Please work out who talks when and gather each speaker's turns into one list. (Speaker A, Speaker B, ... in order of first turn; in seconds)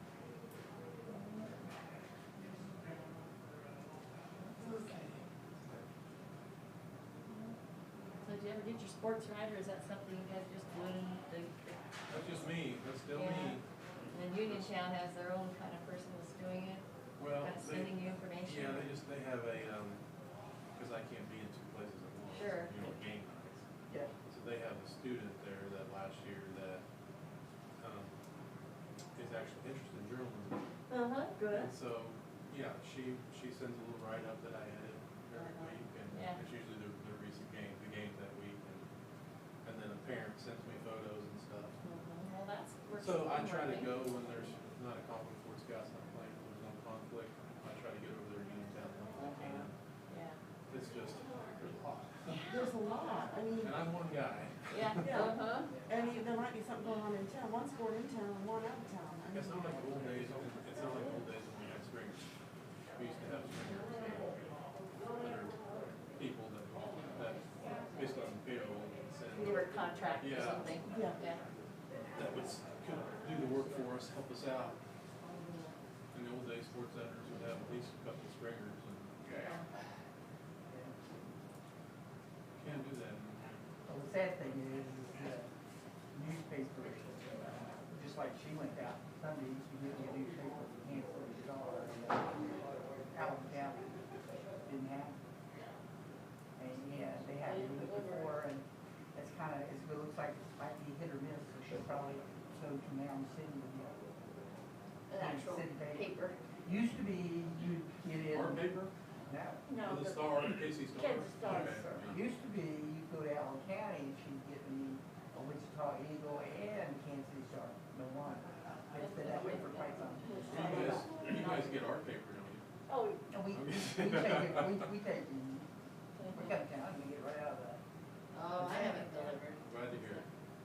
Speaker A: 1.1-1.5, 4.4-5.1, 7.3-7.5, 8.2-12.3, 13.1-13.6, 14.1-16.8, 17.4-18.9, 22.3-22.9, 30.9-31.4, 35.4-36.4, 41.8-43.9, 50.1-50.4, 54.7-55.7, 69.3-71.4, 75.2-75.8, 79.4-79.7, 105.1-106.4, 121.2-121.7, 126.2-126.6, 128.3-130.2
Speaker B: 4.6-5.2, 52.5-53.8, 55.0-60.0, 70.9-71.2
Speaker C: 12.1-13.6, 14.4-14.7, 17.2-20.0, 20.8-23.6, 24.2-26.8, 27.8-28.1, 29.2-30.6, 31.5-38.9, 39.6-41.8, 42.9-49.7, 50.7-52.5, 53.6-55.3, 59.3-62.3, 63.0-64.6, 65.1-65.6, 66.1-69.7, 70.2-70.8, 72.2-74.8, 76.1-79.5, 82.6-83.6, 108.2-108.9, 109.8-112.2, 120.5-122.6, 123.5-124.9, 128.6-130.2
Speaker D: 31.4-31.7, 97.4-98.4, 109.7-112.2, 119.0-121.1, 122.9-123.2
Speaker E: 80.7-81.3, 83.9-85.5, 86.1-93.9, 94.6-95.2, 96.6-104.0, 105.1-106.1, 106.6-108.8, 109.3-109.7, 111.4-121.6, 123.3-125.7, 126.2-127.8, 128.6-129.0